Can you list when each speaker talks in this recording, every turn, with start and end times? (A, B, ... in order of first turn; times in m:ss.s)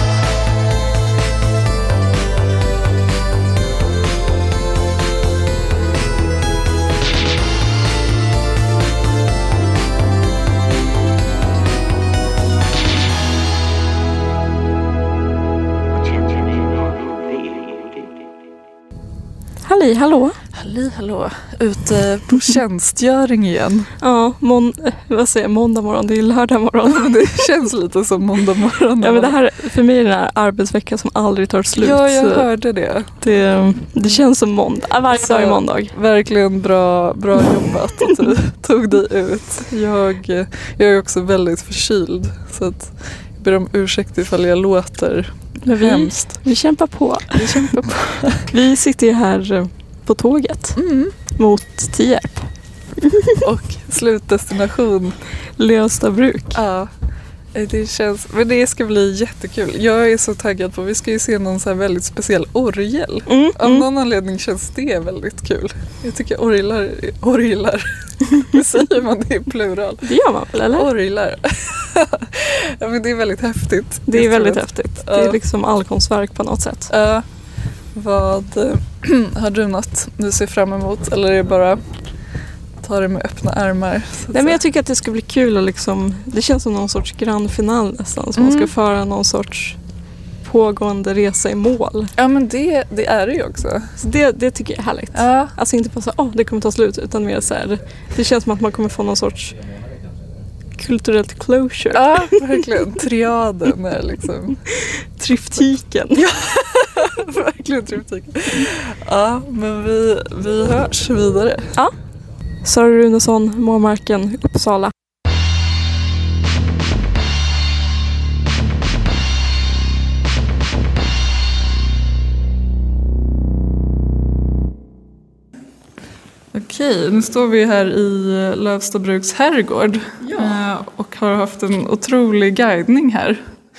0:15.9-0:18.3 A
0:19.6-0:20.4 B
0:20.6-0:23.9 C
0:24.0-0:27.1 B
0:26.9-0:29.4 C
0:29.0-0:32.5 B
0:31.8-0:33.2 C
0:33.2-0:35.9 B
0:35.1-0:46.4 C
0:45.7-0:47.8 B
0:47.4-0:48.4 C
0:48.4-0:50.8 B
0:50.8-0:51.1 C
0:51.3-0:52.5 B
0:53.0-0:53.4 B
0:53.4-0:55.2 C
0:55.6-0:56.6 B
0:56.6-0:56.9 C
0:57.5-1:10.1 C
1:03.3-1:03.9 B
1:10.0-1:10.9 B
1:10.8-1:15.4 C
1:14.1-1:16.9 B
1:16.9-1:17.2 C
1:17.9-1:21.8 C
1:22.8-1:24.6 C
1:24.3-1:29.8 B
1:28.4-1:28.7 C
1:30.4-1:32.1 B
1:32.2-1:33.9 C
1:34.0-1:39.6 B
1:35.1-1:35.5 C
1:40.8-1:42.6 B
1:41.9-1:44.6 C
1:45.2-1:46.2 B
1:46.2-1:51.7 C
1:52.6-1:54.9 B
2:06.5-2:13.4 C